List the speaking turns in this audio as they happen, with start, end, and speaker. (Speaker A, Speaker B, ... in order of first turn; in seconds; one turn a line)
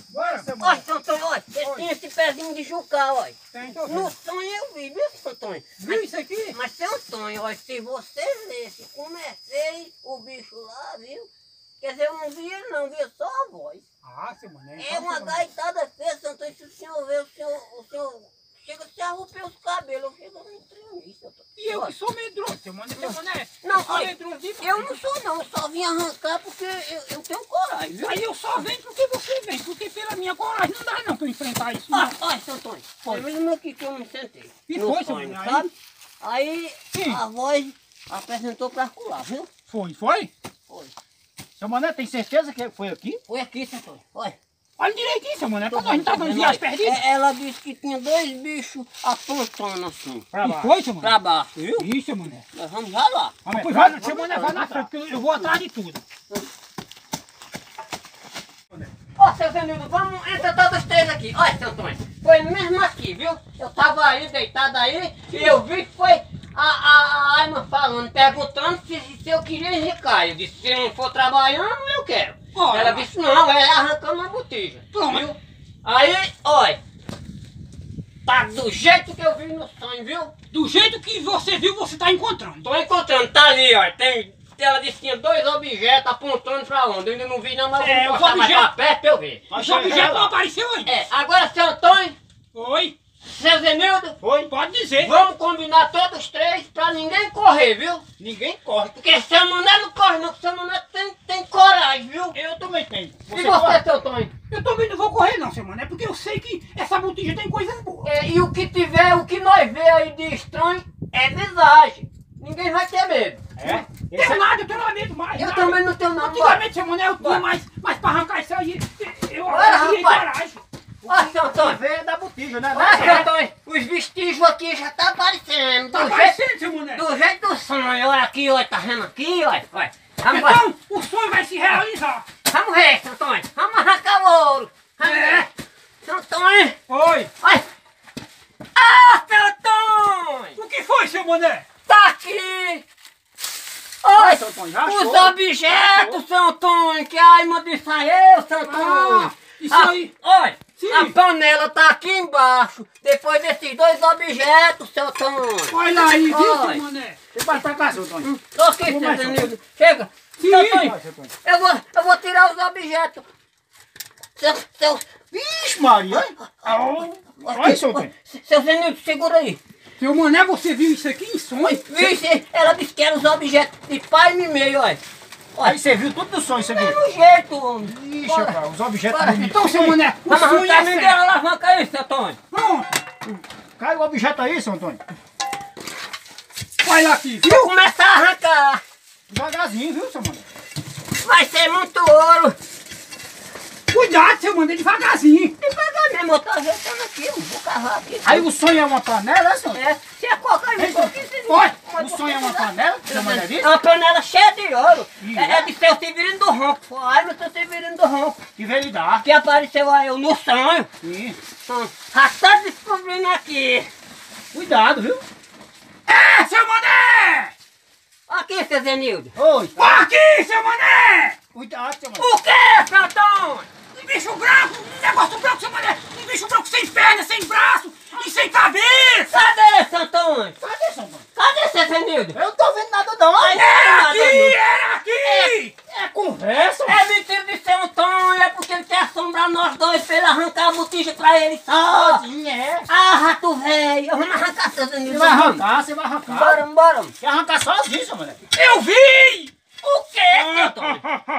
Speaker A: 0.1-0.7
Speaker B: 0.2-0.8
Speaker C: 0.6-11.3
Speaker A: 3.5-4.2
Speaker A: 5.8-6.6
Speaker C: 11.8-13.8
Speaker A: 14.0-15.5
Speaker C: 14.8-21.9
Speaker A: 21.6-25.0
Speaker C: 23.0-28.2
Speaker A: 27.9-32.1
Speaker C: 31.9-39.5
Speaker A: 34.7-35.7
Speaker A: 36.9-37.2
Speaker A: 39.7-40.3
Speaker C: 40.7-40.9
Speaker B: 41.6-43.2
Speaker C: 43.3-44.4
Speaker A: 44.8-47.0
Speaker C: 45.7-51.9
Speaker A: 50.4-51.1
Speaker A: 51.8-52.5
Speaker C: 52.5-54.8
Speaker B: 53.5-54.7
Speaker A: 53.5-56.0
Speaker C: 59.2-75.3
Speaker A: 72.5-73.1
Speaker A: 74.9-75.3
Speaker C: 75.8-76.8
Speaker C: 78.2-80.3
Speaker A: 80.5-82.7
Speaker C: 82.6-90.1
Speaker A: 87.8-88.7
Speaker B: 89.5-90.3
Speaker A: 89.5-90.9
Speaker C: 90.8-92.2
Speaker A: 92.5-93.0
Speaker C: 93.2-94.2
Speaker B: 94.2-94.5
Speaker A: 94.5-95.1
Speaker C: 94.9-98.0
Speaker B: 98.2-99.0
Speaker C: 99.0-102.4
Speaker B: 102.3-103.8
Speaker C: 103.3-104.3
Speaker A: 104.5-108.1
Speaker C: 108.0-113.5
Speaker B: 113.6-114.5
Speaker A: 113.7-120.6
Speaker C: 115.4-116.6
Speaker C: 117.2-117.5
Speaker C: 119.5-120.3
Speaker C: 121.0-121.8
Speaker B: 121.1-123.3
Speaker C: 122.7-126.4
Speaker A: 125.9-127.0
Speaker C: 126.9-130.6
Speaker A: 130.3-132.3
Speaker C: 132.5-135.5
Speaker A: 135.0-135.5
Speaker C: 136.0-136.8
Speaker A: 136.9-137.3
Speaker C: 138.8-140.6
Speaker A: 140.6-141.7
Speaker C: 141.9-142.8
Speaker C: 144.0-156.8
Speaker B: 144.1-146.2
Speaker A: 148.7-150.1
Speaker A: 150.8-151.2
Speaker A: 155.7-157.3
Speaker B: 157.3-158.3
Speaker C: 158.2-163.3
Speaker B: 158.9-159.5
Speaker A: 160.4-161.0
Speaker B: 160.6-161.3
Speaker C: 164.4-165.1
Speaker B: 165.3-166.3
Speaker C: 166.4-169.6
Speaker A: 166.6-167.1
Speaker B: 167.5-168.1
Speaker A: 170.0-172.1
Speaker C: 171.6-175.0
Speaker C: 175.5-175.8
Speaker B: 175.6-177.0
Speaker C: 176.6-178.6
Speaker B: 177.8-180.0
Speaker C: 179.1-179.5
Speaker A: 179.3-181.2
Speaker C: 180.3-182.4
Speaker A: 182.5-182.9
Speaker B: 183.8-185.0
Speaker A: 186.8-187.7
Speaker C: 187.4-188.8
Speaker B: 189.3-190.4
Speaker C: 191.2-192.6
Speaker A: 193.9-195.6
Speaker C: 195.6-198.5
Speaker B: 198.2-199.8
Speaker C: 199.8-208.4
Speaker B: 200.8-203.7
Speaker B: 205.2-205.7
Speaker B: 208.6-209.2
Speaker C: 209.2-210.9
Speaker B: 211.0-211.4
Speaker C: 211.7-213.9
Speaker B: 214.5-215.2
Speaker A: 216.1-217.5
Speaker C: 218.3-219.3
Speaker B: 219.4-220.0
Speaker A: 219.8-221.4
Speaker B: 221.5-222.3
Speaker C: 222.2-223.7
Speaker A: 223.9-229.4
Speaker C: 229.3-230.6
Speaker B: 230.6-231.3
Speaker C: 231.3-232.4
Speaker B: 232.3-233.6
Speaker C: 233.3-234.6
Speaker A: 233.5-235.7
Speaker C: 235.2-235.5
Speaker B: 235.9-237.0
Speaker C: 236.8-242.2
Speaker B: 241.7-242.9
Speaker C: 242.9-245.7
Speaker B: 245.1-246.6
Speaker C: 246.3-247.1
Speaker B: 247.2-248.4
Speaker A: 248.5-249.5
Speaker C: 249.8-251.0
Speaker A: 250.3-251.2